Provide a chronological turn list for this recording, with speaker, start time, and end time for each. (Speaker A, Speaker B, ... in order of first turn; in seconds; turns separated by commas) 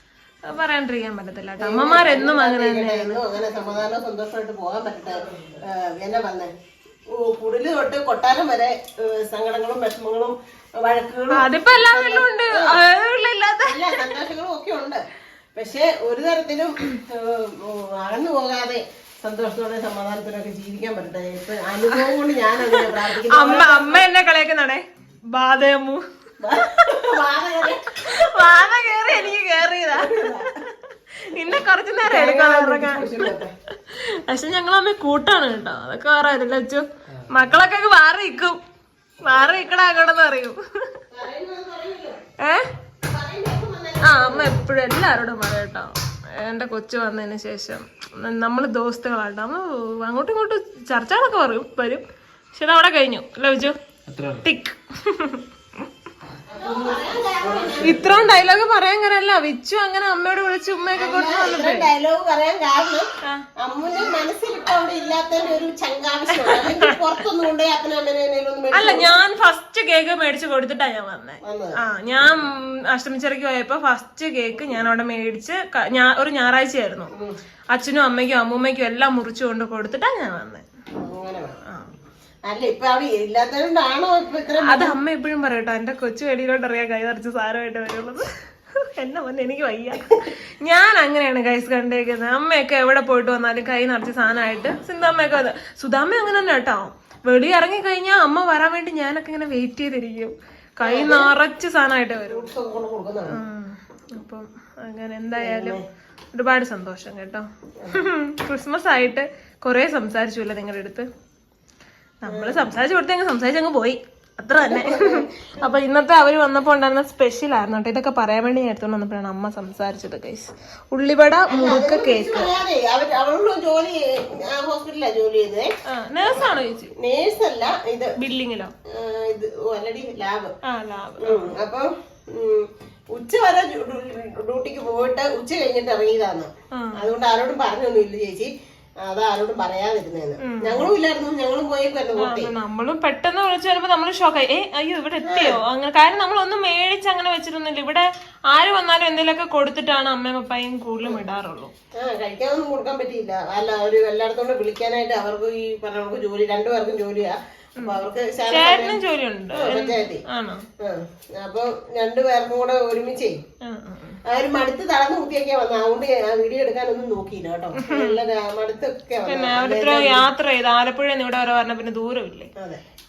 Speaker A: 0.5-3.2, Speaker B: 1.6-6.5, Speaker B: 7.1-12.8, Speaker A: 11.3-14.0, Speaker B: 13.7-24.1, Speaker A: 22.7-26.0, Speaker B: 26.4-28.1, Speaker A: 28.0-30.2, Speaker B: 29.1-29.4, Speaker B: 29.9-30.5, Speaker A: 31.3-33.3, Speaker B: 32.0-33.5, Speaker A: 33.9-38.6, Speaker C: 37.1-37.3, Speaker A: 39.2-40.6, Speaker B: 39.3-39.6, Speaker B: 41.1-42.2, Speaker B: 43.0-44.6, Speaker A: 44.1-52.0, Speaker A: 52.5-53.8, Speaker C: 54.1-54.5, Speaker A: 54.4-55.4, Speaker C: 56.5-58.4, Speaker B: 56.5-58.1, Speaker A: 57.8-61.9, Speaker B: 61.0-63.1, Speaker B: 63.6-69.2, Speaker A: 66.4-66.9, Speaker A: 68.7-77.1, Speaker B: 71.5-71.8, Speaker A: 77.7-80.6, Speaker B: 81.0-81.6, Speaker B: 82.5-85.0, Speaker A: 84.6-88.3, Speaker A: 89.0-102.5, Speaker B: 100.8-101.3, Speaker B: 102.2-103.4, Speaker A: 103.3-105.8, Speaker B: 105.3-105.8, Speaker A: 106.3-111.1, Speaker B: 107.8-108.1, Speaker A: 112.2-122.5, Speaker B: 112.3-112.7, Speaker B: 114.6-115.3, Speaker B: 121.5-125.7, Speaker A: 125.9-126.9, Speaker B: 126.2-128.1, Speaker A: 128.2-128.7, Speaker B: 128.9-130.5, Speaker A: 130.7-131.5, Speaker B: 131.2-138.5, Speaker B: 139.1-142.5, Speaker A: 140.4-140.9, Speaker A: 142.2-151.7, Speaker B: 145.3-145.6, Speaker B: 152.0-159.0, Speaker A: 157.8-160.7, Speaker B: 159.5-160.2, Speaker B: 160.8-163.4, Speaker A: 163.7-164.2, Speaker B: 164.3-170.3, Speaker A: 167.8-168.2, Speaker A: 169.3-172.5